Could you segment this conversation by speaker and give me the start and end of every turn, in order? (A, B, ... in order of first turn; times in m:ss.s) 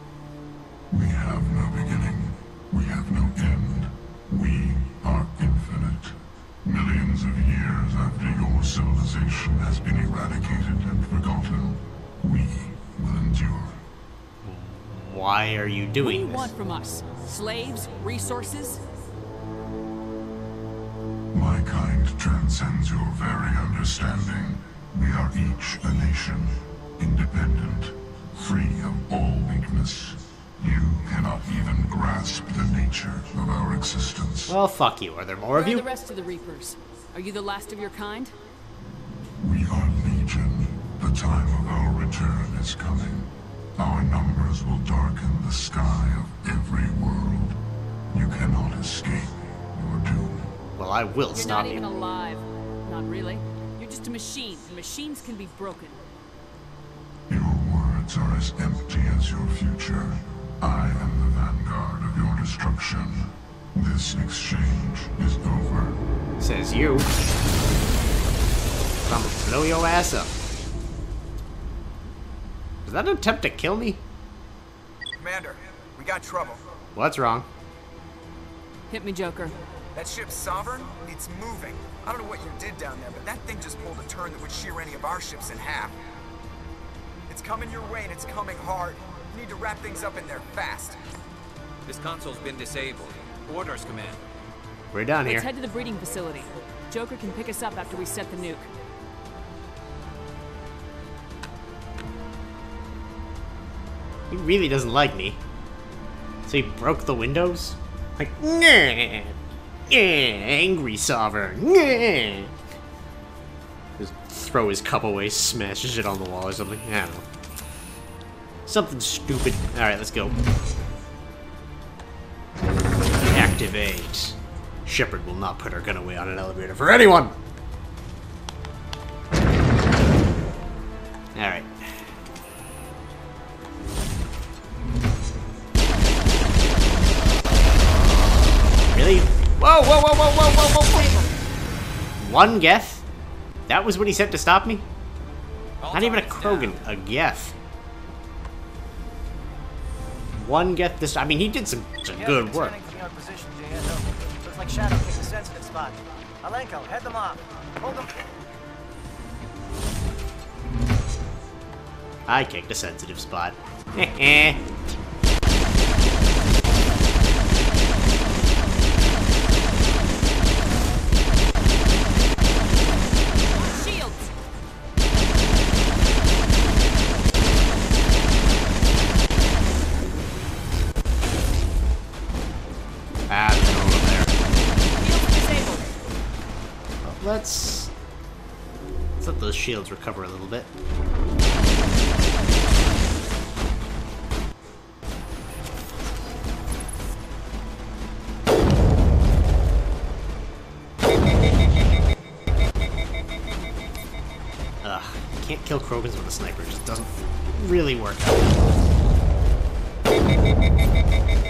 0:00.9-0:13.8 A
0:14.4-0:16.5 B
0:16.0-0:18.8 C
0:21.3-0:34.5 A
0:34.5-0:35.8 B
0:35.5-0:38.3 C
0:39.4-0:47.6 A
0:48.1-0:50.5 A
0:50.8-0:51.9 B
0:51.3-0:56.0 C
0:57.3-1:06.0 A
1:06.4-1:07.1 B
1:09.0-1:10.3 B
1:12.8-1:14.0 B
1:15.2-1:16.6 D
1:16.9-1:17.5 B
1:18.9-1:19.5 C
1:19.9-1:26.0 D
1:27.3-1:31.0 D
1:31.8-1:34.2 E
1:34.9-1:35.5 B
1:35.2-1:38.7 C
1:44.3-1:45.4 B
1:46.4-1:49.4 B
1:49.9-1:52.5 B
1:54.0-1:57.2 B
1:58.7-2:00.3 B
2:03.3-2:07.4 B
2:11.3-2:11.7 B
2:17.9-2:21.3 B
2:22.2-2:23.0 B
2:23.7-2:24.8 B
2:25.8-2:26.8 E
2:25.9-2:27.6 B
2:30.3-2:32.8 B
2:32.1-2:33.9 F
2:34.5-2:38.0 F
2:42.3-2:44.6 B
2:53.5-2:54.3 C
3:03.3-3:04.3 B
3:05.0-3:05.9 C
3:07.0-3:07.9 B
3:09.2-3:10.7 B
3:24.8-3:28.7 B